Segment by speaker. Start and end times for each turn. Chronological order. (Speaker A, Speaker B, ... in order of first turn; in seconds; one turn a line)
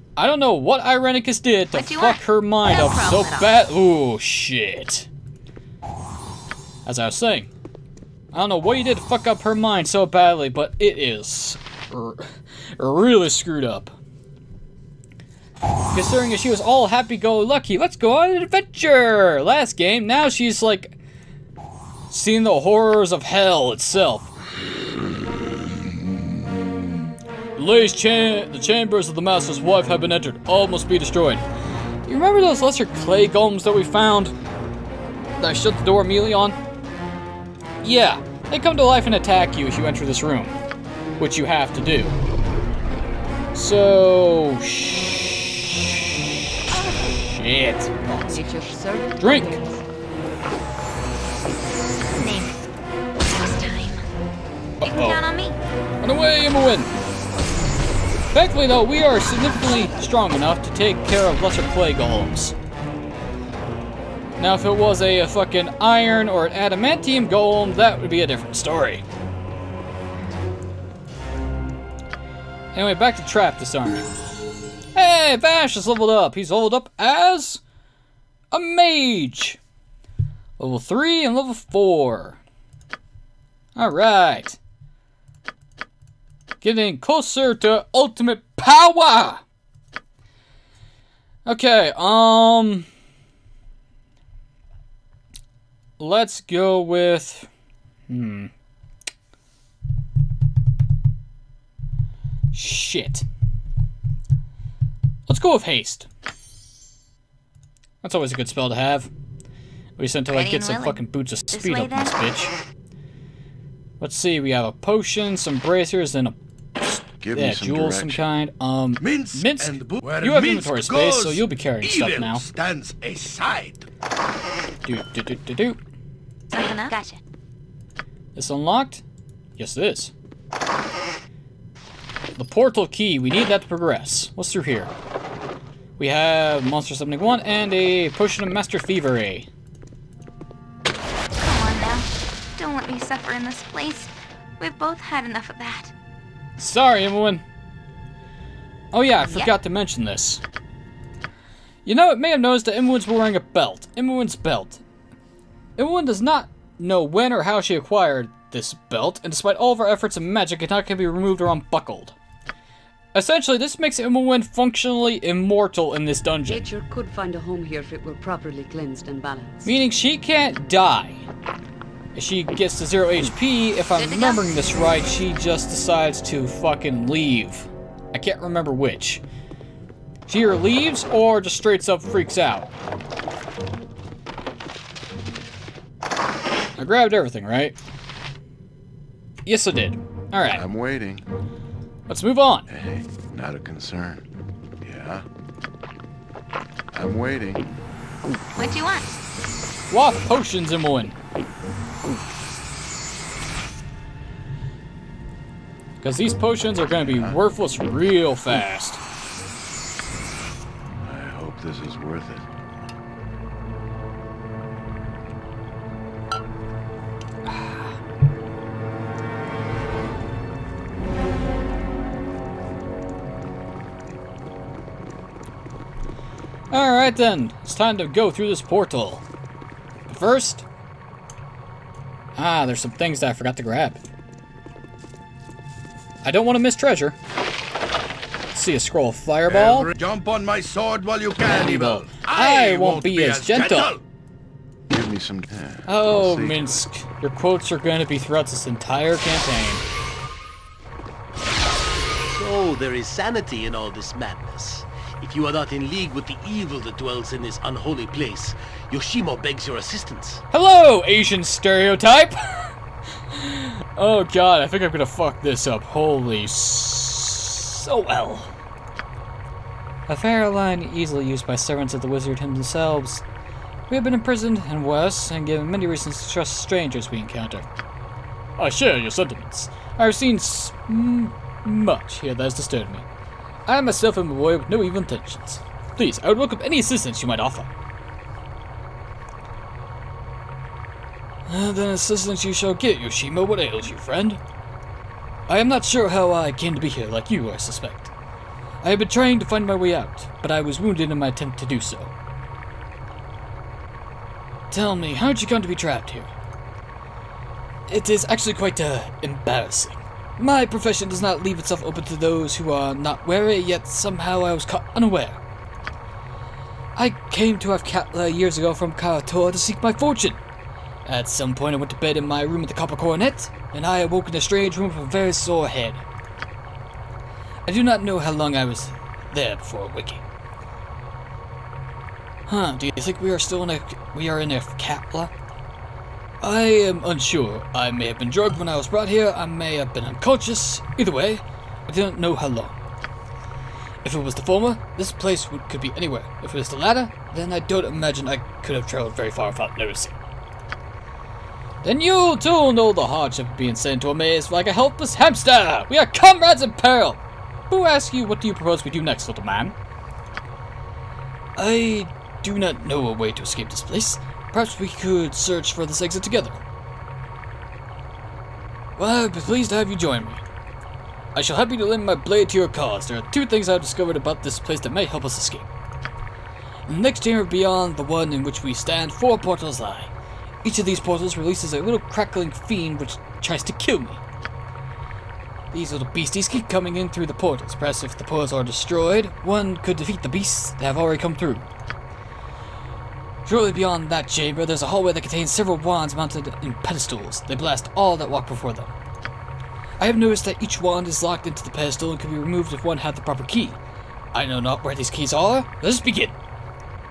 Speaker A: 0.2-5.1
Speaker B: 1.7-3.5
Speaker A: 6.9-7.5
Speaker A: 8.3-13.9
Speaker A: 15.9-21.0
Speaker A: 22.1-24.3
Speaker A: 27.6-31.4
Speaker A: 32.1-34.3
Speaker A: 35.4-36.6
Speaker A: 37.8-40.6
Speaker A: 41.2-42.2
Speaker A: 43.5-48.6
Speaker C: 48.3-49.8
Speaker A: 49.2-49.6
Speaker B: 52.1-52.7
Speaker B: 53.4-54.1
Speaker A: 54.8-55.2
Speaker B: 54.8-55.6
Speaker A: 56.0-56.9
Speaker A: 58.3-62.6
Speaker A: 64.4-69.0
Speaker A: 72.8-74.1
Speaker A: 75.0-77.6
Speaker A: 78.5-79.6
Speaker A: 80.6-82.4
Speaker A: 83.8-84.6
Speaker A: 86.6-89.4
Speaker A: 91.5-92.9
Speaker A: 96.0-97.5
Speaker A: 98.1-98.5
Speaker A: 102.5-103.2
Speaker A: 105.3-106.1
Speaker A: 108.0-109.1
Speaker A: 110.0-112.5
Speaker B: 110.3-111.0
Speaker B: 111.5-112.2
Speaker A: 114.0-122.5
Speaker D: 117.2-118.3
Speaker E: 119.0-123.9
Speaker A: 124.8-125.8
Speaker B: 126.5-127.2
Speaker A: 128.4-129.0
Speaker A: 129.6-130.1
Speaker A: 132.4-134.9
Speaker A: 136.0-139.5
Speaker B: 141.4-145.9
Speaker A: 146.6-147.4
Speaker A: 148.9-150.4
Speaker B: 149.3-149.5
Speaker A: 151.9-154.8
Speaker A: 155.8-162.2
Speaker A: 163.1-166.7
Speaker C: 166.5-169.7
Speaker A: 169.7-171.2
Speaker A: 172.2-179.2
Speaker B: 173.9-175.2
Speaker A: 180.3-182.7
Speaker A: 186.8-187.8
Speaker A: 189.5-190.6
Speaker D: 190.5-191.2
Speaker A: 192.1-192.7
Speaker D: 192.7-194.2
Speaker D: 194.8-195.2
Speaker D: 196.9-197.7
Speaker B: 198.6-199.1
Speaker A: 199.9-201.2
Speaker A: 206.0-209.0
Speaker D: 207.0-207.4
Speaker D: 211.0-212.5
Speaker A: 217.5-217.9
Speaker A: 226.7-229.2
Speaker A: 230.1-230.7
Speaker A: 232.4-234.0
Speaker A: 236.2-237.2
Speaker A: 238.5-239.9
Speaker E: 239.5-244.0
Speaker A: 241.5-243.9
Speaker D: 244.9-246.9
Speaker A: 245.9-249.8
Speaker F: 252.3-260.4
Speaker A: 260.5-262.7
Speaker A: 263.3-268.5
Speaker A: 270.1-273.2
Speaker A: 273.9-277.7
Speaker A: 278.6-283.1
Speaker A: 283.7-287.7
Speaker A: 291.5-294.4
Speaker A: 295.5-298.1
Speaker A: 298.8-302.1
Speaker A: 304.7-306.3
Speaker A: 307.9-315.4
Speaker A: 317.0-320.4
Speaker A: 321.1-326.1
Speaker A: 327.7-330.2
Speaker A: 332.5-335.3
Speaker A: 336.4-342.8
Speaker A: 344.0-350.1
Speaker A: 351.8-359.8
Speaker A: 361.6-366.6
Speaker A: 369.0-370.4
Speaker A: 371.4-375.7
Speaker A: 376.9-380.1
Speaker A: 380.6-384.2
Speaker A: 385.7-391.7
Speaker A: 393.4-398.9
Speaker A: 400.0-403.8
Speaker A: 404.3-406.4